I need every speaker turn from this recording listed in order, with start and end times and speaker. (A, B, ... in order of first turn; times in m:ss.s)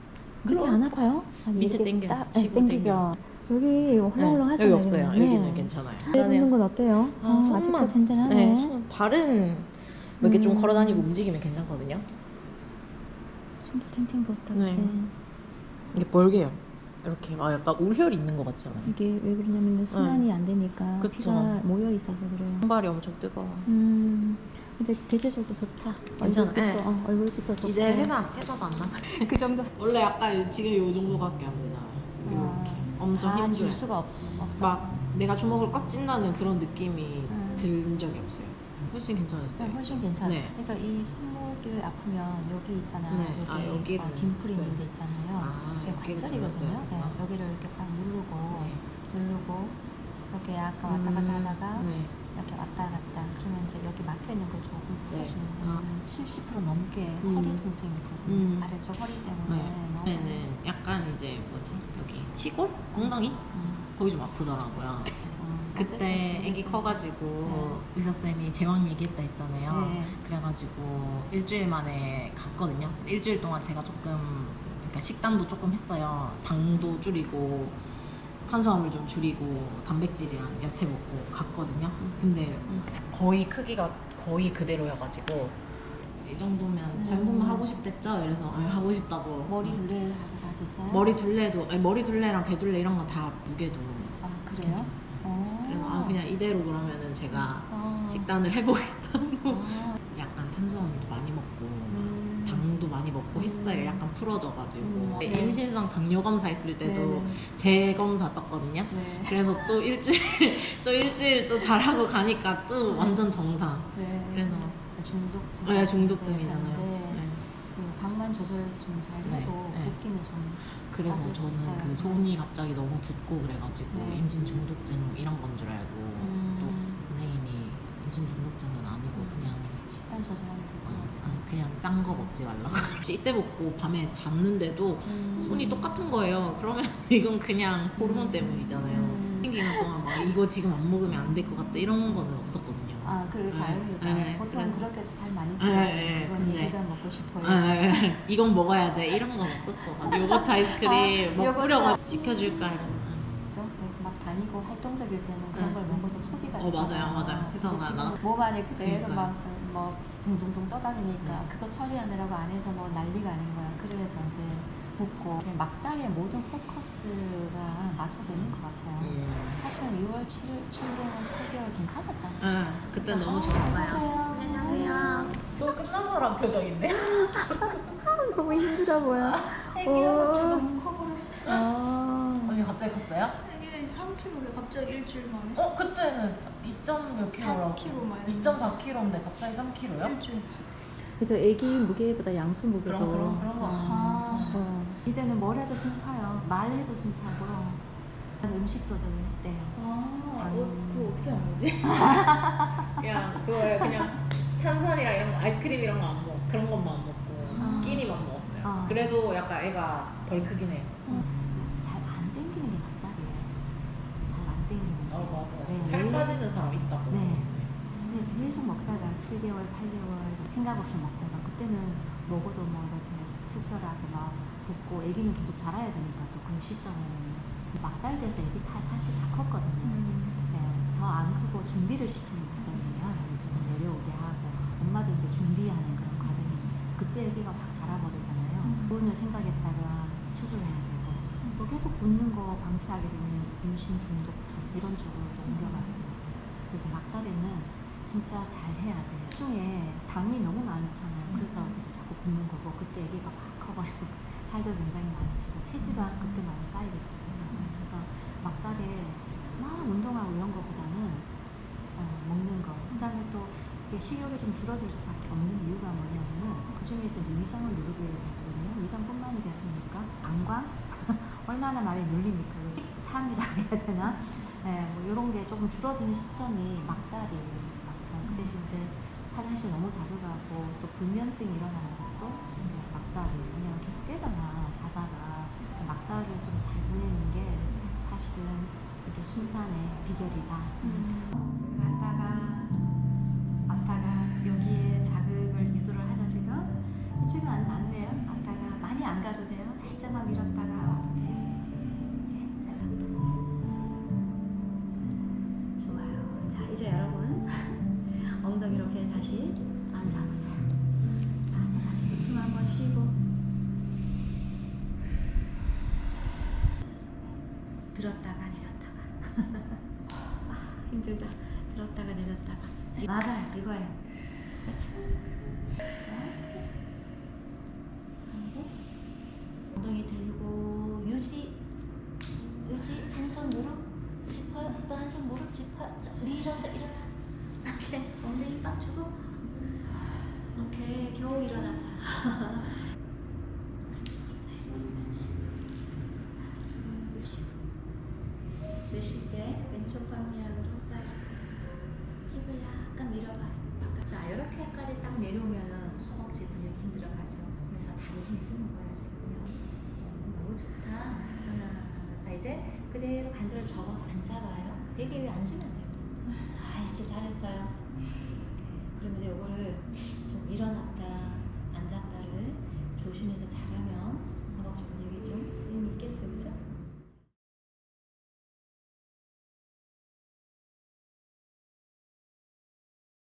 0:00.4-0:08.8 A
0:00.4-0:00.8 B
0:01.5-0:03.1 B
0:04.2-0:12.0 B
0:10.2-0:11.1 A
0:13.6-0:15.1 A
0:14.5-0:15.0 B
0:15.9-0:18.9 B
0:18.8-0:22.7 A
0:19.9-0:20.3 B
0:21.0-0:21.6 B
0:22.6-0:23.7 B
0:23.6-0:28.1 A
0:26.2-0:26.8 B
0:27.6-0:33.8 B
0:28.9-0:30.0 A
0:32.2-0:35.0 A
0:34.6-0:40.5 B
0:37.3-0:37.7 A
0:39.6-0:49.8 A
0:43.1-0:47.2 B
0:48.5-0:48.8 B
0:50.3-1:00.5 A
0:50.8-0:52.1 B
0:55.1-0:55.9 B
0:57.2-0:57.6 B
0:58.2-0:58.8 B
0:59.4-1:17.8 B
1:02.9-1:03.9 A
1:05.3-1:07.8 A
1:09.7-1:10.2 A
1:18.4-1:25.6 B
1:22.0-1:22.9 A
1:26.2-1:29.8 B
1:26.9-1:27.6 A
1:29.5-1:31.1 A
1:30.9-1:54.8 B
1:34.2-1:36.2 A
1:37.3-1:38.3 A
1:39.5-1:40.0 A
1:41.9-1:42.7 A
1:43.3-1:44.0 A
1:44.8-1:45.6 A
1:46.8-1:47.4 A
1:48.9-1:49.7 A
1:52.9-1:53.2 A
1:53.9-2:02.3 A
1:55.6-1:57.4 B
1:59.2-2:00.0 B
2:00.6-2:09.8 B
2:03.9-2:04.2 A
2:06.2-2:07.0 A
2:09.1-2:11.4 A
2:10.8-2:24.9 B
2:15.0-2:15.8 A
2:18.0-2:20.3 A
2:23.0-2:28.0 A
2:25.6-2:26.8 B
2:27.4-2:33.3 B
2:30.0-2:32.0 A
2:33.5-2:55.3 A
2:35.5-2:36.0 B
2:36.6-2:38.2 B
2:38.7-2:39.3 B
2:48.3-2:49.6 B
2:52.4-2:58.0 B
2:54.4-2:55.2 C
2:56.9-3:00.7 A
2:59.2-2:59.6 B
2:59.7-3:01.6 C
3:01.4-3:02.6 A
3:02.4-3:03.4 B
3:03.4-3:05.6 C
3:05.5-3:10.2 B
3:07.3-3:08.7 C
3:10.0-3:10.6 C
3:11.1-3:17.8 A
3:12.8-3:14.7 B
3:13.7-3:14.6 C
3:18.4-3:19.8 A
3:19.8-3:22.3 C
3:20.4-3:20.7 B
3:20.4-3:21.2 A
3:21.3-3:31.0 B
3:21.9-3:23.0 A
3:27.6-3:28.0 C
3:27.6-3:28.1 A
3:28.6-3:29.1 A
3:31.1-3:33.6 A
3:34.2-3:36.4 A
3:35.1-3:37.7 B
3:37.1-3:37.5 A
3:37.9-3:38.4 C
3:38.1-4:21.3 A
3:49.8-3:50.4 C
3:58.6-3:59.0 C
4:05.5-4:06.0 C
4:11.3-4:11.8 C
4:15.9-4:16.3 C
4:17.5-4:17.8 C
4:22.0-4:52.9 A
4:38.2-4:38.5 C
4:47.7-4:48.0 C
4:50.8-4:51.4 C
4:53.7-5:01.6 A
5:02.2-5:03.4 A
5:05.8-5:10.8 A
5:11.4-5:13.2 A
5:17.9-5:19.8 A
5:20.4-5:24.0 A
5:24.6-5:26.7 A
5:28.3-5:28.8 A
5:29.7-5:31.6 A
5:32.6-5:39.9 A
5:40.5-5:42.9 A
5:43.8-5:45.7 A
5:46.2-5:47.6 A
5:48.9-5:51.3 A
5:52.3-6:07.8 A
6:08.6-6:16.7 A